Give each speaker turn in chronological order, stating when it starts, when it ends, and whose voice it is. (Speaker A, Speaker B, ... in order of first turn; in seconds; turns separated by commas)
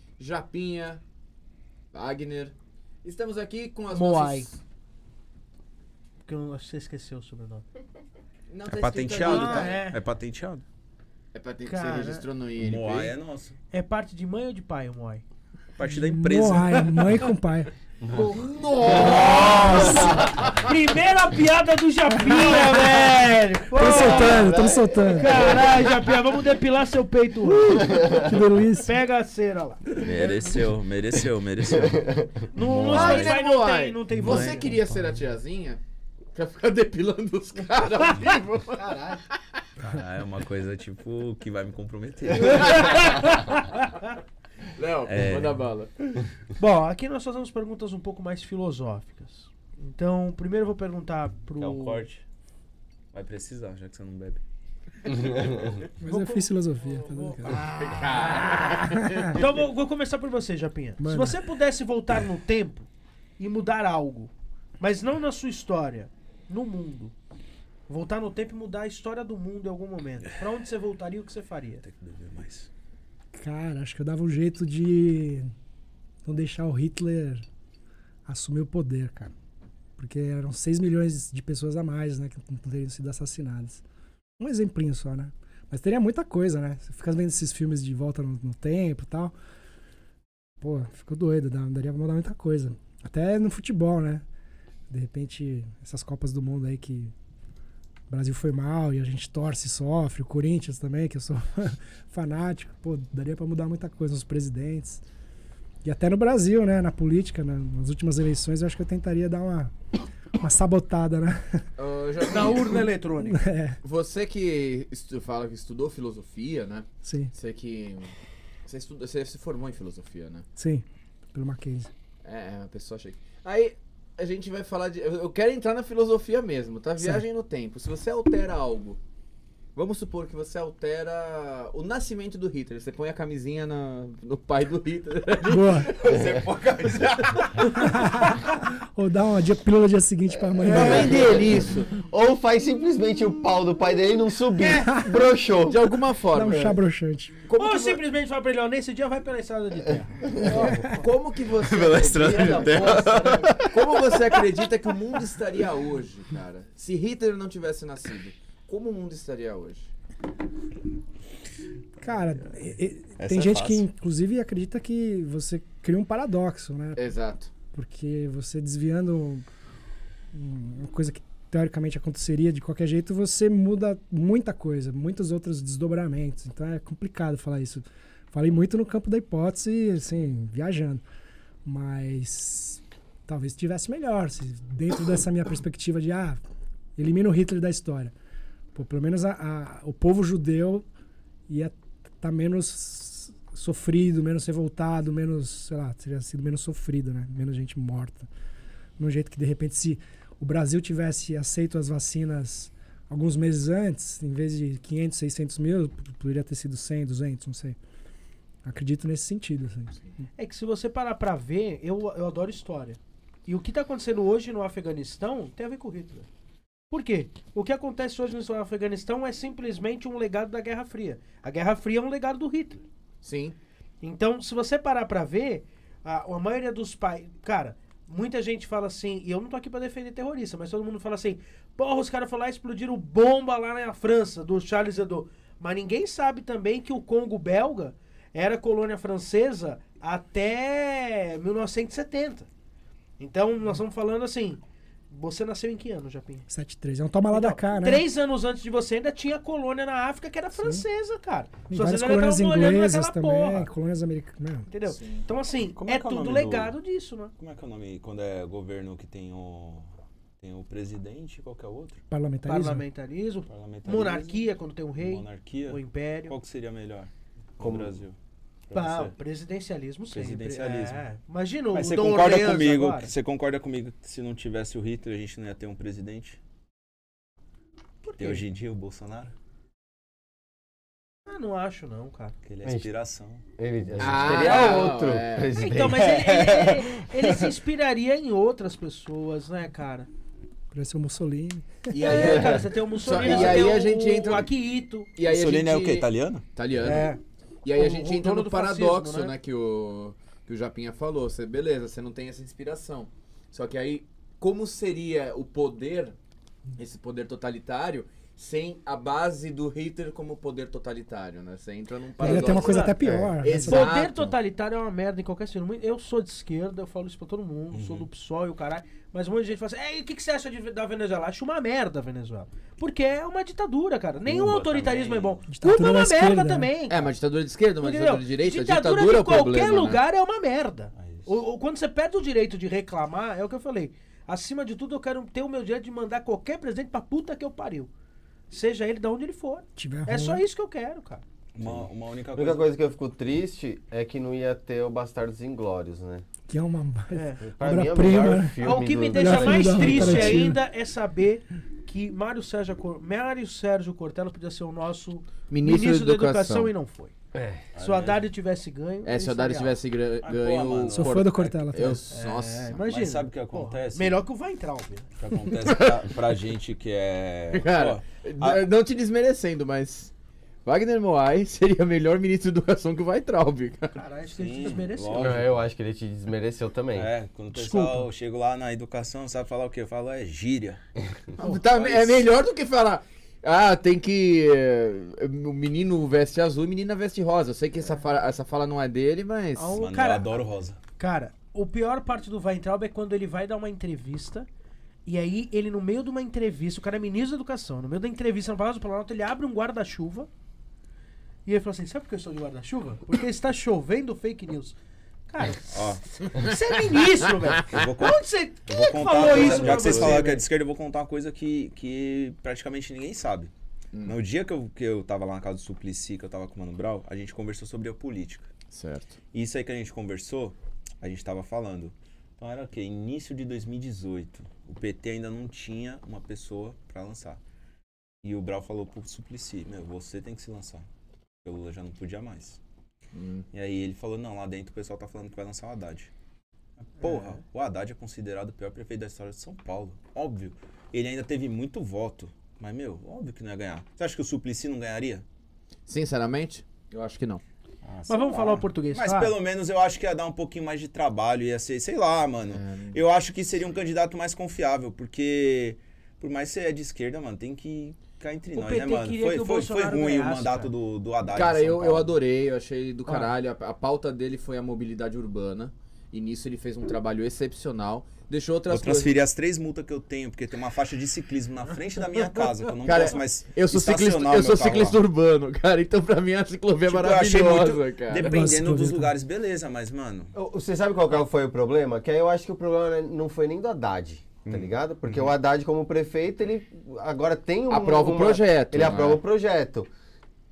Speaker A: 0.2-1.0, Speaker A: 1.9-4.6, Speaker B: 3.9-4.5, Speaker B: 6.2-7.6, Speaker A: 8.5-9.8, Speaker C: 8.7-10.6, Speaker B: 9.2-10.0, Speaker A: 11.3-13.2, Speaker B: 11.7-12.2, Speaker C: 12.6-13.6, Speaker B: 13.7-15.2, Speaker C: 15.8-17.0, Speaker D: 15.8-17.7, Speaker E: 18.0-18.3, Speaker A: 18.1-20.7, Speaker E: 18.9-20.3, Speaker C: 19.0-19.9, Speaker B: 19.0-19.9, Speaker D: 19.7-20.2, Speaker B: 20.6-28.2, Speaker D: 23.7-25.6, Speaker E: 23.8-25.9, Speaker D: 27.6-29.0, Speaker E: 27.7-28.3, Speaker B: 28.8-30.3, Speaker C: 30.0-32.3, Speaker E: 31.8-32.3, Speaker B: 32.5-34.8, Speaker A: 32.6-35.8, Speaker C: 32.8-33.3, Speaker C: 34.2-34.6, Speaker A: 36.3-39.6, Speaker B: 38.8-39.2, Speaker C: 39.8-43.4, Speaker B: 42.5-43.8, Speaker A: 44.8-45.9, Speaker C: 45.0-45.6, Speaker B: 46.6-52.0, Speaker C: 51.6-52.2, Speaker C: 53.1-54.4, Speaker C: 55.1-55.8, Speaker D: 56.0-57.9, Speaker B: 56.0-58.7, Speaker A: 57.5-59.4, Speaker D: 58.8-59.4, Speaker B: 59.3-62.9, Speaker D: 61.0-61.4, Speaker B: 63.4-67.1, Speaker B: 67.9-71.8, Speaker C: 71.8-72.7, Speaker D: 73.3-75.5, Speaker D: 76.2-77.4, Speaker D: 78.2-79.3, Speaker D: 80.0-83.8, Speaker D: 84.4-89.3, Speaker D: 90.6-94.2, Speaker D: 94.9-97.1, Speaker D: 98.1-105.0, Speaker D: 105.8-109.7, Speaker D: 110.4-111.6, Speaker A: 111.8-112.8, Speaker B: 112.3-113.5, Speaker D: 113.2-113.8, Speaker A: 113.8-118.1, Speaker D: 117.0-117.3, Speaker A: 118.6-120.5, Speaker D: 120.6-121.9, Speaker A: 122.2-129.0, Speaker A: 129.7-137.7, Speaker D: 135.4-135.9, Speaker C: 136.0-137.7, Speaker D: 137.7-141.2, Speaker E: 140.6-146.8, Speaker A: 140.6-141.9, Speaker D: 144.6-145.1, Speaker A: 145.7-146.7, Speaker D: 146.3-147.4, Speaker A: 147.4-148.0, Speaker B: 147.6-150.9, Speaker E: 150.2-151.0, Speaker A: 150.4-159.9, Speaker C: 151.5-154.2, Speaker E: 152.1-153.5, Speaker D: 162.0-167.0, Speaker C: 163.2-163.8, Speaker A: 166.9-167.5, Speaker D: 167.7-169.4, Speaker D: 170.3-181.0, Speaker D: 181.6-186.4, Speaker D: 186.9-188.1, Speaker D: 188.7-190.8, Speaker D: 191.5-198.3, Speaker D: 199.0-207.8, Speaker D: 208.6-210.0, Speaker B: 210.4-216.3, Speaker B: 216.9-222.8, Speaker A: 223.2-223.6, Speaker B: 224.0-242.5, Speaker B: 243.2-246.4, Speaker D: 246.5-248.0, Speaker B: 247.3-253.7, Speaker D: 250.5-250.8, Speaker D: 251.7-254.7, Speaker B: 254.7-257.3, Speaker A: 254.9-255.2, Speaker C: 255.8-256.7, Speaker C: 257.4-259.9, Speaker C: 260.4-262.0, Speaker D: 262.1-262.8, Speaker B: 262.4-266.4, Speaker C: 263.5-268.1, Speaker E: 267.6-267.9, Speaker C: 268.7-269.1, Speaker B: 268.7-273.1, Speaker C: 270.1-271.0, Speaker C: 271.7-276.4, Speaker B: 278.0-278.4, Speaker C: 278.2-279.3, Speaker B: 281.2-282.4, Speaker C: 282.4-283.4, Speaker E: 283.6-286.0, Speaker A: 284.0-285.6, Speaker C: 284.0-284.4, Speaker B: 285.5-290.1, Speaker C: 285.9-287.5, Speaker D: 290.7-291.9, Speaker A: 291.9-294.5, Speaker B: 291.9-295.1, Speaker A: 295.1-297.1, Speaker C: 295.2-296.4, Speaker B: 296.8-297.2, Speaker A: 297.6-306.1, Speaker B: 297.7-299.3, Speaker A: 306.8-314.3, Speaker D: 312.2-313.9, Speaker B: 312.2-313.0, Speaker E: 313.0-313.3, Speaker B: 313.5-327.1, Speaker C: 317.7-318.1, Speaker C: 324.2-325.4, Speaker D: 325.5-326.7, Speaker A: 326.9-330.0, Speaker B: 327.8-337.9, Speaker C: 331.0-331.3, Speaker B: 338.5-341.2, Speaker D: 339.8-340.4, Speaker C: 341.5-342.7, Speaker E: 341.6-346.2, Speaker D: 346.5-350.6, Speaker B: 347.1-347.4, Speaker E: 347.4-350.4, Speaker B: 348.6-357.1, Speaker A: 355.5-356.7, Speaker E: 357.3-357.6, Speaker C: 357.7-358.2, Speaker B: 357.8-359.8, Speaker A: 359.0-362.8, Speaker C: 360.2-361.5, Speaker D: 360.9-362.0, Speaker B: 362.1-365.1, Speaker C: 362.9-364.2, Speaker C: 365.2-368.6, Speaker A: 365.6-366.1, Speaker A: 367.5-370.1, Speaker A: 370.6-374.0, Speaker B: 373.9-375.5, Speaker C: 374.3-375.6, Speaker E: 375.1-377.1, Speaker C: 376.9-380.8, Speaker B: 377.5-378.1, Speaker C: 381.3-382.2, Speaker A: 381.4-389.8, Speaker B: 389.6-390.4, Speaker C: 389.7-390.8, Speaker B: 391.0-394.5, Speaker B: 395.1-400.3, Speaker B: 401.4-404.8, Speaker B: 405.3-410.4, Speaker C: 405.7-406.2, Speaker C: 407.6-413.5, Speaker E: 409.1-410.2, Speaker C: 414.0-418.5, Speaker A: 418.7-419.2, Speaker C: 419.3-427.4, Speaker C: 428.2-430.9, Speaker C: 431.4-432.6, Speaker A: 433.1-433.4, Speaker C: 433.5-436.1, Speaker C: 436.8-445.2, Speaker B: 437.0-437.3, Speaker A: 445.9-447.4, Speaker C: 447.8-462.1, Speaker B: 448.1-449.3, Speaker A: 452.5-453.0, Speaker B: 458.5-460.7, Speaker A: 461.3-469.1, Speaker C: 468.7-475.0, Speaker A: 472.8-478.3, Speaker C: 476.9-480.3, Speaker D: 478.2-479.1, Speaker E: 480.3-489.9, Speaker C: 484.4-485.3, Speaker A: 487.7-489.2